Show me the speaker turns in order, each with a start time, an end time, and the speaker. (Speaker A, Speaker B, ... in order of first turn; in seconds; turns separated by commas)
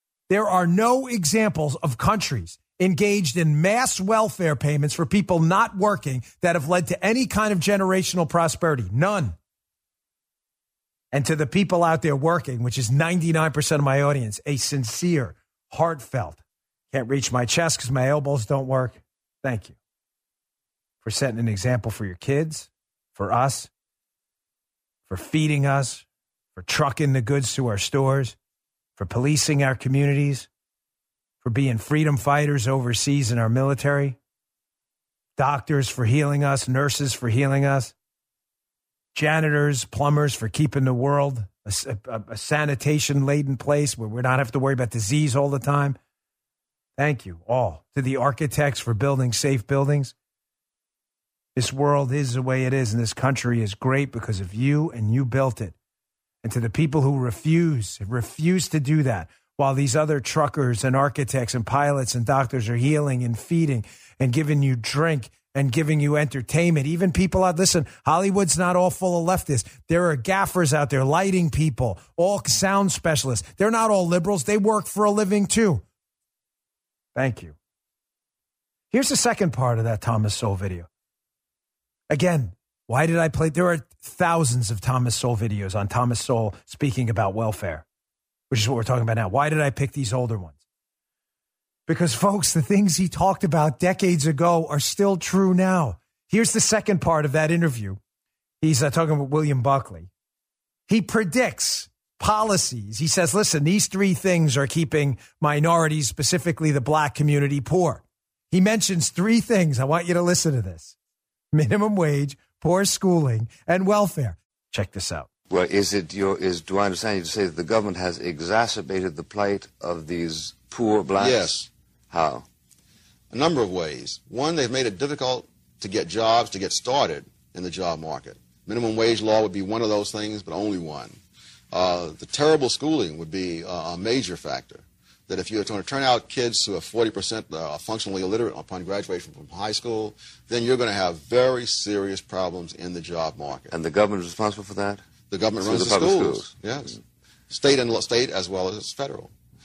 Speaker A: 0.3-9.3, Speaker A: 11.1-19.8, Speaker A: 21.0-23.7, Speaker A: 25.1-28.4, Speaker A: 29.0-30.5, Speaker A: 31.4-34.2, Speaker A: 35.4-37.9, Speaker A: 39.1-46.0, Speaker A: 47.0-50.1, Speaker A: 51.5-55.7, Speaker A: 56.4-75.8, Speaker A: 77.1-77.5, Speaker A: 78.9-80.9, Speaker A: 82.1-87.8, Speaker A: 88.5-90.6, Speaker A: 91.9-98.0, Speaker A: 98.6-100.1, Speaker A: 100.9-110.9, Speaker A: 111.5-115.3, Speaker B: 115.5-122.5, Speaker C: 121.2-121.7, Speaker C: 123.3-131.2, Speaker C: 131.7-143.8, Speaker B: 143.7-145.0, Speaker C: 145.3-147.0, Speaker B: 145.6-146.5, Speaker C: 147.5-149.3